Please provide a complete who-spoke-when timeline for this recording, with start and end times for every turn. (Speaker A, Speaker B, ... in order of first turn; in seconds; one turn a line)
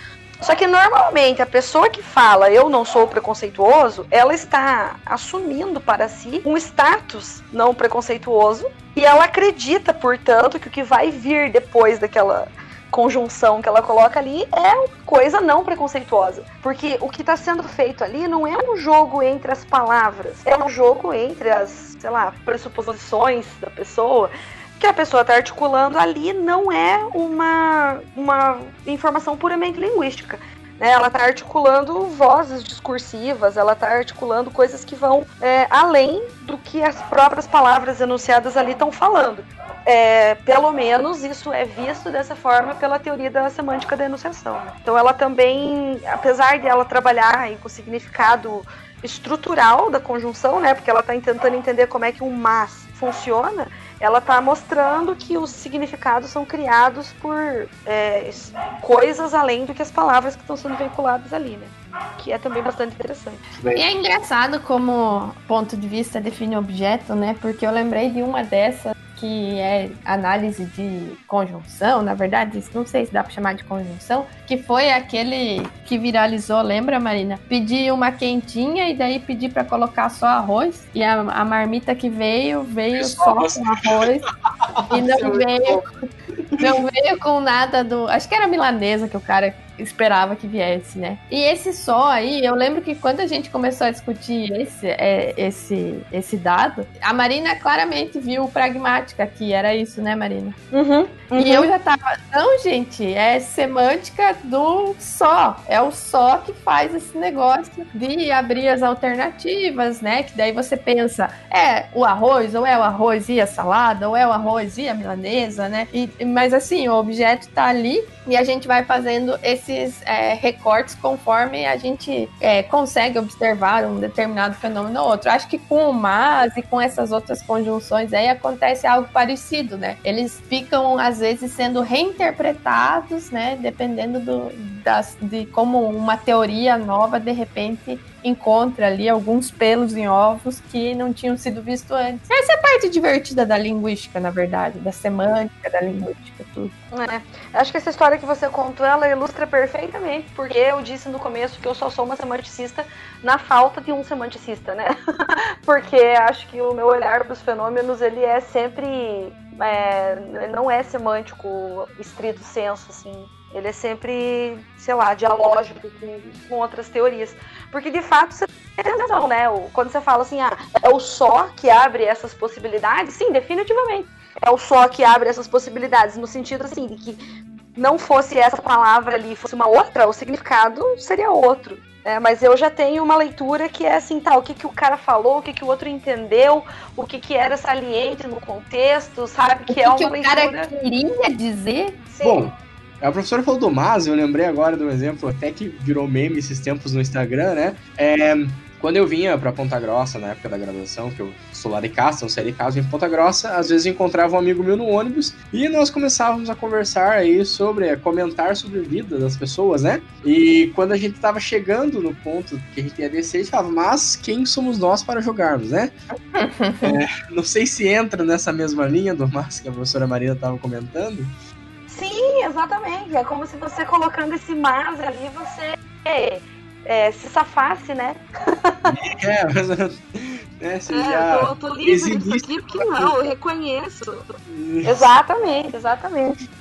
Speaker A: 0.4-63.4
Speaker B: 63.5-63.9
Speaker C: 63.7-84.2
Speaker B: 83.0-84.0
Speaker B: 84.8-85.9
Speaker C: 84.9-85.8
Speaker C: 86.6-100.6
Speaker A: 100.7-101.7
Speaker C: 101.4-146.7
Speaker A: 146.9-177.2
Speaker A: 177.8-190.7
Speaker C: 189.7-192.0
Speaker A: 192.1-192.4
Speaker B: 192.2-215.9
Speaker C: 216.3-216.9
Speaker B: 216.8-221.3
Speaker A: 221.9-228.8
Speaker B: 228.8-233.2
Speaker A: 230.9-236.4
Speaker B: 234.5-235.1